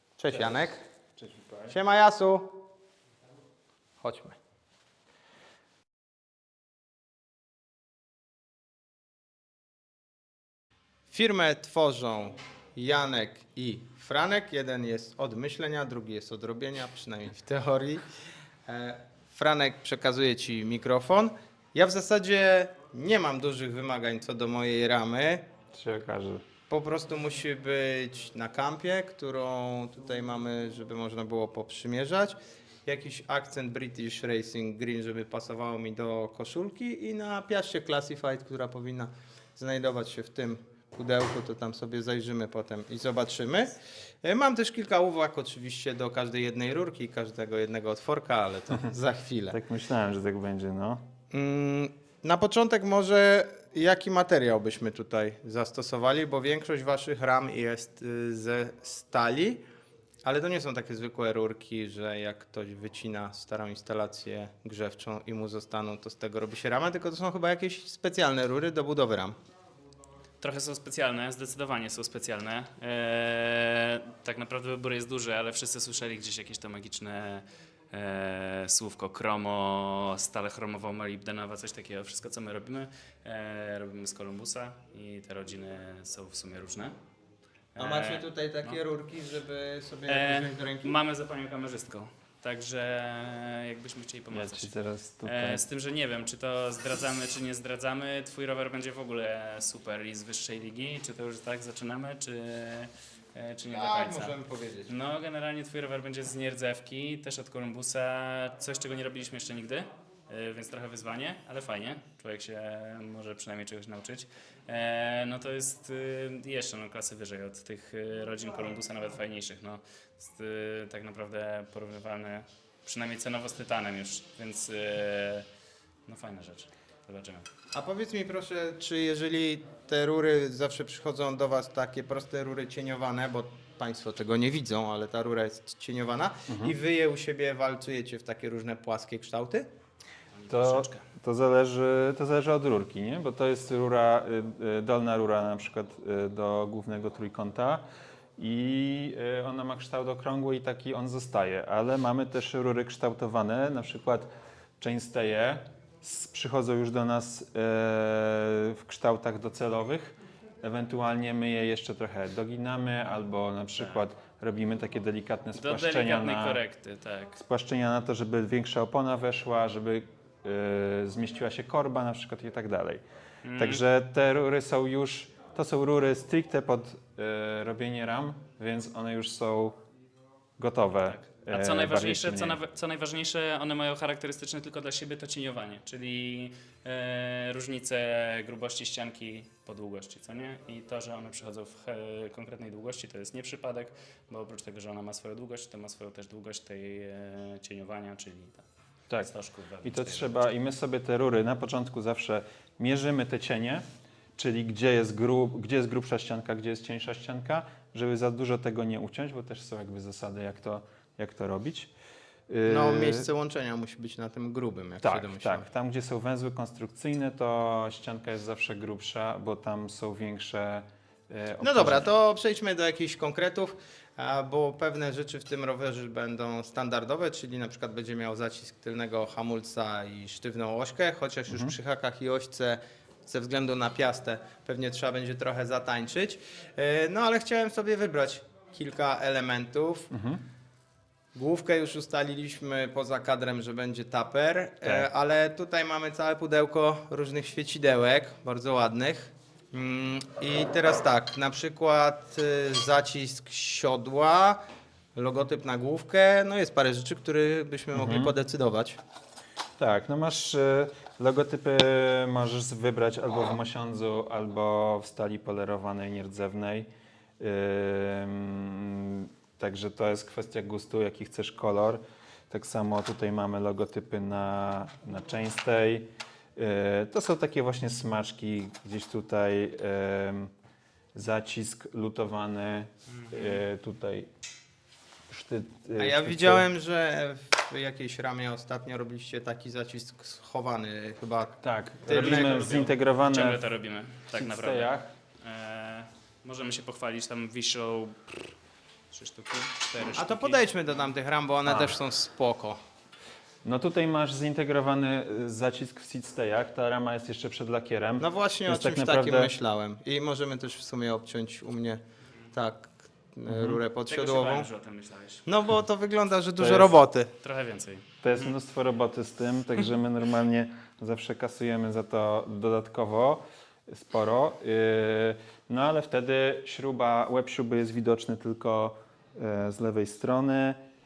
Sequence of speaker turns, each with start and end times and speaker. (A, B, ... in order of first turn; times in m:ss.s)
0:00.2-0:00.8 A
0:01.2-0:01.7 B
0:01.7-0:02.6 A
0:04.0-0:04.4 A
0:11.1-0:18.0 A
0:18.6-0:25.5 A
0:25.7-0:26.4 B
0:26.7-0:49.6 A
0:49.5-0:51.1 B
0:51.3-0:59.6 A
1:00.2-1:09.4 A
1:10.4-1:26.9 C
1:27.8-1:28.8 C
1:27.8-1:30.9 A
1:30.1-1:34.7 C
1:34.3-1:35.6 B
1:35.2-1:44.4 C
1:43.7-1:44.9 A
1:44.9-2:05.5 C
2:06.0-2:07.5 C
2:07.7-2:19.7 A
2:16.5-2:16.7 B
2:20.3-2:21.0 C
2:20.5-2:46.6 B
2:45.5-2:47.3 C
2:47.3-2:53.0 B
2:53.4-2:53.8 C
2:53.6-2:59.8 B
3:00.6-3:02.6 B
3:01.0-3:18.6 C
3:19.2-3:20.3 C
3:19.8-3:23.8 B
3:24.4-3:31.9 B
3:32.5-3:33.3 B
3:32.6-3:35.6 A
3:35.0-3:42.1 B
3:41.6-4:00.1 A
3:51.5-3:51.7 B
4:00.1-4:00.4 B
4:01.3-4:19.0 A
4:17.9-4:18.3 B
4:19.8-4:40.5 B
4:41.1-4:44.3 B
4:43.1-4:43.6 C
4:45.3-4:46.7 B
4:46.0-4:52.7 A
4:51.6-4:53.6 B
4:52.0-4:58.5 C
4:54.3-4:55.1 B
4:59.1-5:00.6 C
5:00.2-5:02.8 A
5:03.6-5:09.5 B
5:08.2-5:12.0 A
5:12.5-5:14.7 A
5:13.5-5:13.8 B
5:14.1-5:15.4 C
5:15.4-5:17.3 A
5:16.6-5:17.0 B
5:17.4-5:18.5 C
5:18.2-5:30.8 B